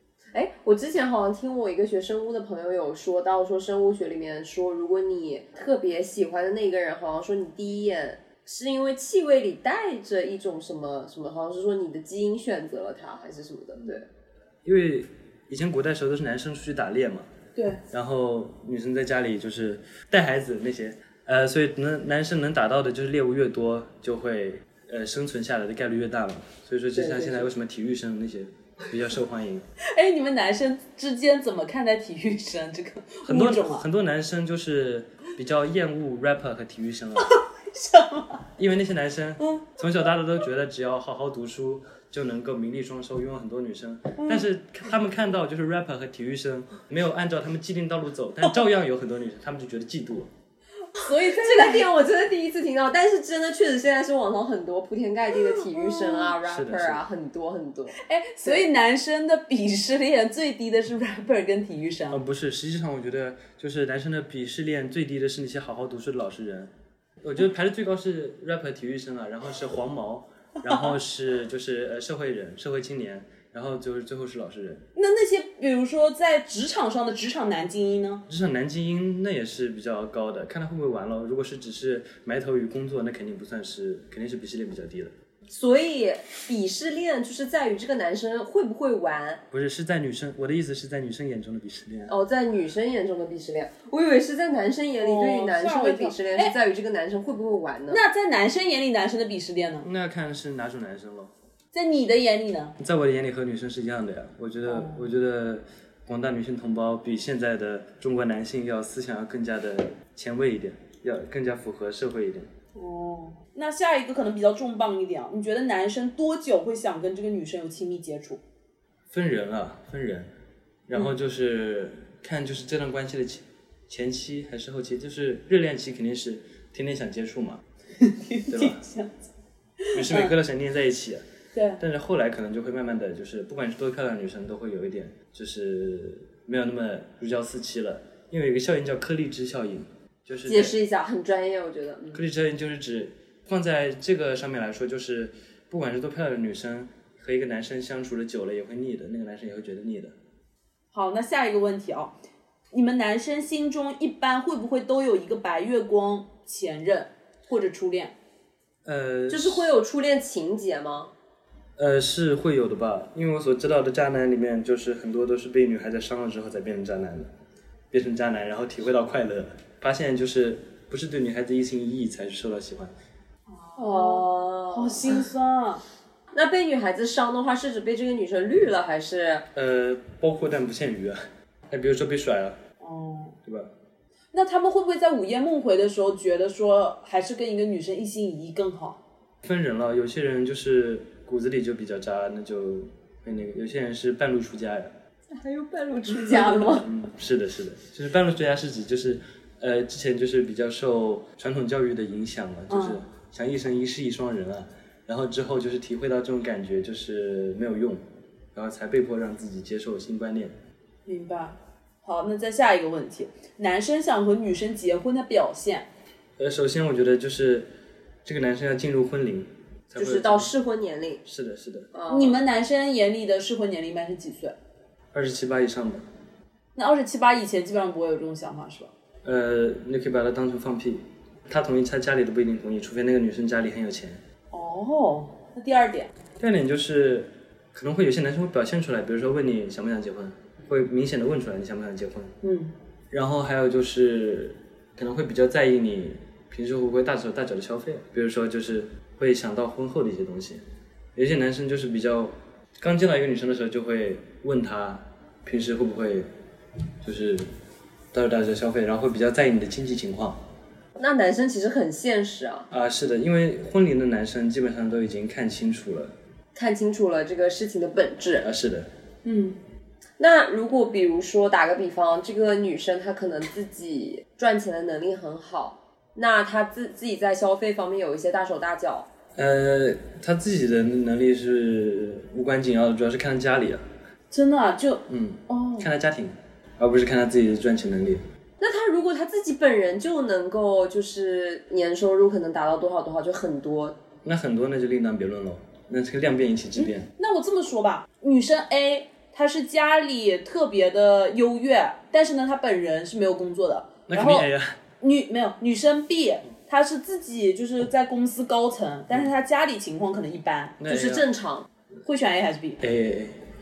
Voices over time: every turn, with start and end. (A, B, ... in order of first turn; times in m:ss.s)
0:00.3-0:14.0 A
0:14.6-0:17.3 B
0:17.6-0:17.8 C
0:17.9-0:29.6 B
0:27.0-0:27.4 A
0:29.8-0:33.8 C
0:33.3-0:37.3 B
0:37.2-0:38.4 C
0:38.6-0:50.3 B
0:39.4-0:39.7 C
0:50.9-0:51.9 C
0:51.1-0:58.6 A
0:56.0-0:56.2 C
0:56.4-0:57.0 B
0:58.0-1:02.2 C
1:02.1-1:06.7 B
1:07.2-1:14.8 B
1:15.0-1:18.2 C
1:18.3-1:25.1 B
1:25.5-1:29.4 A
1:29.5-1:32.1 B
1:32.1-1:38.0 A
1:35.0-1:36.5 C
1:37.9-1:39.9 C
1:39.8-1:41.3 B
1:41.7-1:42.8 C
1:42.8-1:52.5 B
1:44.6-1:45.0 C
1:52.7-1:58.4 C
1:59.1-2:00.3 B
2:00.9-2:07.6 B
2:08.0-2:09.1 C
2:08.5-2:08.8 B
2:09.8-2:10.3 C
2:09.9-2:11.2 B
2:11.5-2:11.8 C
2:11.8-2:20.7 B
2:20.4-2:22.2 A
2:22.1-2:30.1 B
2:30.9-2:32.2 C
2:32.7-2:38.1 C
2:38.8-2:39.7 B
2:39.3-2:41.1 A
2:41.8-2:47.3 B
2:47.9-2:52.9 B
2:53.5-2:55.8 C
2:53.8-2:55.2 A
2:56.3-2:59.4 A
2:59.5-3:01.2 B
3:01.7-3:02.6 B
3:02.8-3:03.4 C
3:03.4-3:03.7 B
3:04.3-3:09.0 C
3:09.4-3:14.9 B
3:15.3-3:16.9 A
3:16.2-3:16.8 C
3:16.8-3:28.0 B
3:22.7-3:23.0 C
3:28.5-3:30.5 B
3:31.0-3:35.9 C
3:36.4-3:37.7 B
3:38.2-3:40.5 B
3:40.0-3:41.2 A
3:41.2-3:41.9 B
3:41.9-3:42.4 A
3:42.1-3:44.5 C
3:45.1-3:46.0 B
3:46.8-3:48.9 C
3:49.2-3:54.2 B
3:54.5-3:56.1 C
3:56.4-4:02.3 B
4:02.4-4:02.7 C
4:03.1-4:10.6 B
4:11.1-4:16.3 B
4:17.0-4:17.5 B
4:18.1-4:20.4 B
4:21.0-4:22.7 A
4:22.7-4:26.1 B
4:26.5-4:28.5 A
4:28.4-4:28.9 B
4:29.2-4:29.6 C
4:30.2-4:39.1 A
4:39.4-4:43.8 B
4:44.3-4:45.9 C
4:45.1-4:48.2 B
4:48.6-4:54.0 A
4:54.2-4:57.1 B
4:56.8-5:04.5 C
5:04.1-5:04.8 B
5:05.0-5:10.8 C
5:10.8-5:11.3 B
5:10.9-5:11.7 A
5:12.0-5:12.8 C
5:12.8-5:13.4 B